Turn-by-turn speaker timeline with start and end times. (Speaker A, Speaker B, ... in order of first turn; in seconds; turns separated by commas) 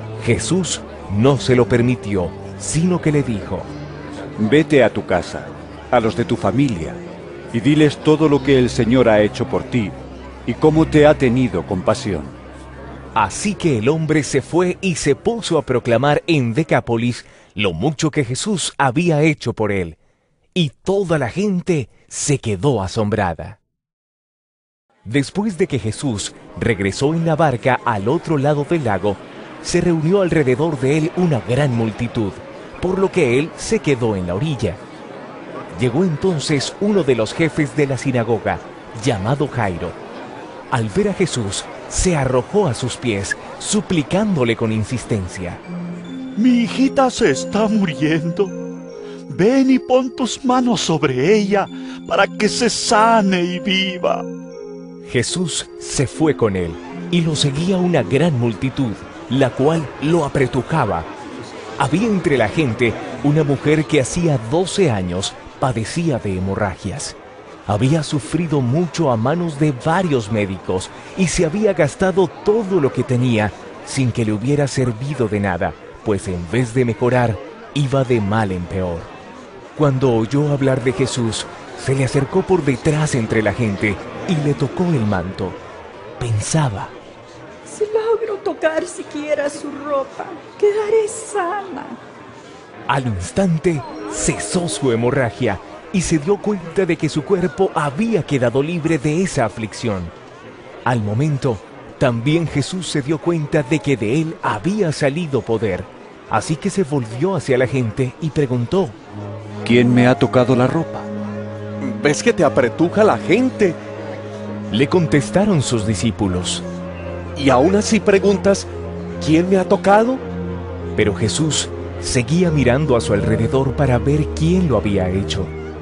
Speaker A: 0.2-3.7, Speaker B: 4.4-7.0, Speaker B: 7.5-12.4, Speaker A: 13.2-20.0, Speaker A: 20.6-23.6, Speaker A: 25.1-34.8, Speaker A: 35.7-40.0, Speaker A: 40.7-45.6, Speaker C: 46.4-48.5, Speaker C: 49.3-54.2, Speaker A: 55.1-61.1, Speaker A: 61.8-79.1, Speaker A: 79.8-85.6, Speaker A: 86.2-86.9, Speaker D: 87.7-92.0, Speaker A: 92.9-100.1, Speaker A: 100.9-109.0, Speaker B: 109.7-111.1, Speaker E: 111.8-113.8, Speaker A: 114.7-116.7, Speaker E: 117.4-118.7, Speaker E: 119.2-120.2, Speaker A: 121.0-125.5